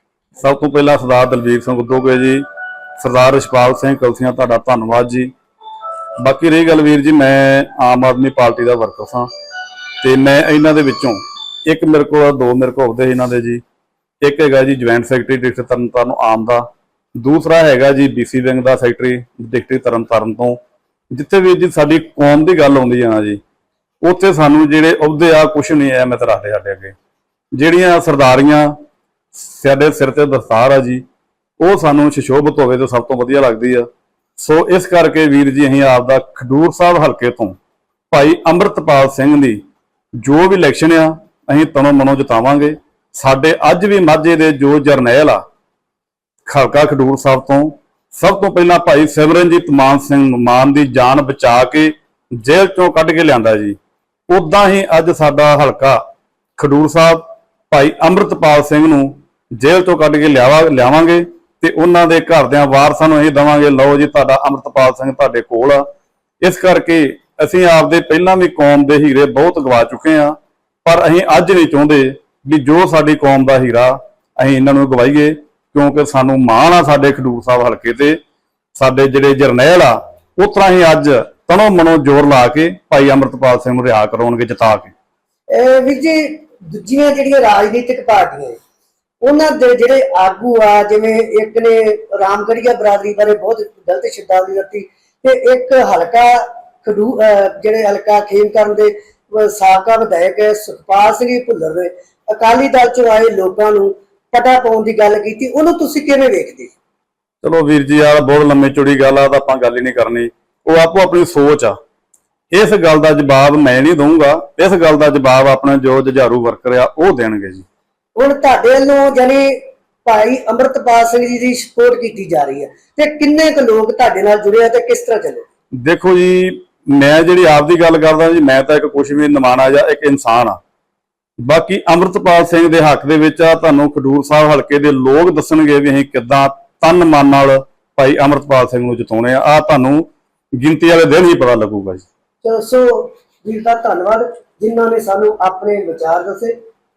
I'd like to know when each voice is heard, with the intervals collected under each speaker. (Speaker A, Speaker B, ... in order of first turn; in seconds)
Speaker A: 0.4-2.4, 3.0-5.3, 6.2-9.3, 10.0-13.6, 14.2-20.6, 21.1-23.4, 24.0-26.9, 27.6-28.7, 29.3-31.0, 31.6-33.9, 34.4-37.6, 38.1-39.6, 40.2-45.4, 46.5-53.8, 54.3-56.0, 56.6-65.8, 66.4-78.2, 78.7-84.9, 107.4-111.7, 112.5-117.6, 125.8-130.6, 131.4-140.1, 140.6-142.0
Speaker B: 85.5-88.6, 89.2-106.7, 118.2-125.5, 142.4-146.6